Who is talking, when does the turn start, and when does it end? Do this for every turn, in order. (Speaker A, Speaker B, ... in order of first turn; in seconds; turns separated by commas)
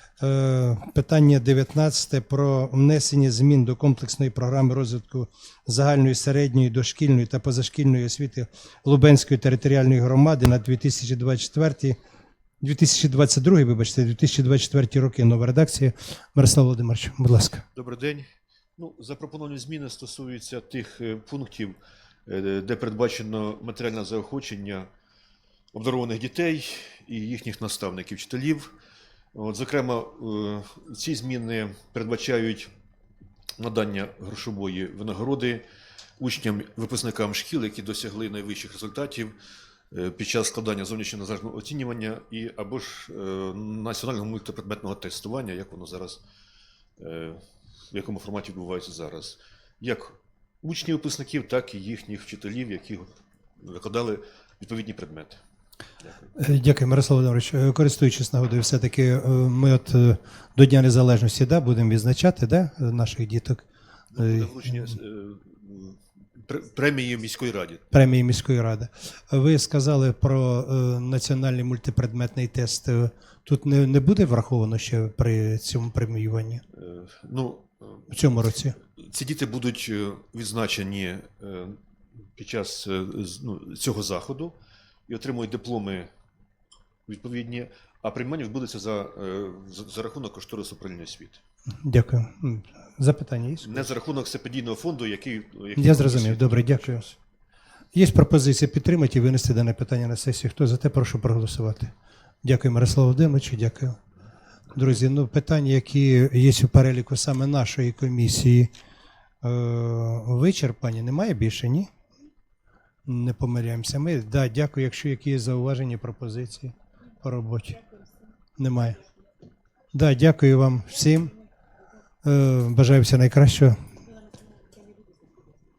Speaker A: 0.2-12.0, Speaker A: 12.6-17.6, Speaker B: 17.8-18.3, Speaker B: 18.8-24.9, Speaker B: 25.7-28.7, Speaker B: 29.3-32.7, Speaker B: 33.6-35.6, Speaker B: 36.2-39.4, Speaker B: 39.9-46.2, Speaker B: 47.0-55.4, Speaker B: 56.0-56.3, Speaker A: 56.4-63.6, Speaker B: 64.1-67.8, Speaker A: 64.2-64.6, Speaker A: 67.9-76.6, Speaker B: 76.7-78.1, Speaker A: 78.1-78.8, Speaker B: 79.0-81.8, Speaker B: 82.4-86.1, Speaker B: 87.1-91.4, Speaker A: 91.8-93.9, Speaker B: 93.6-97.2, Speaker A: 95.8-97.1, Speaker A: 97.9-101.9, Speaker A: 102.4-104.0, Speaker A: 104.7-108.7, Speaker A: 109.4-111.9, Speaker A: 113.1-117.8, Speaker A: 118.6-119.0, Speaker A: 119.9-121.3, Speaker A: 122.2-123.8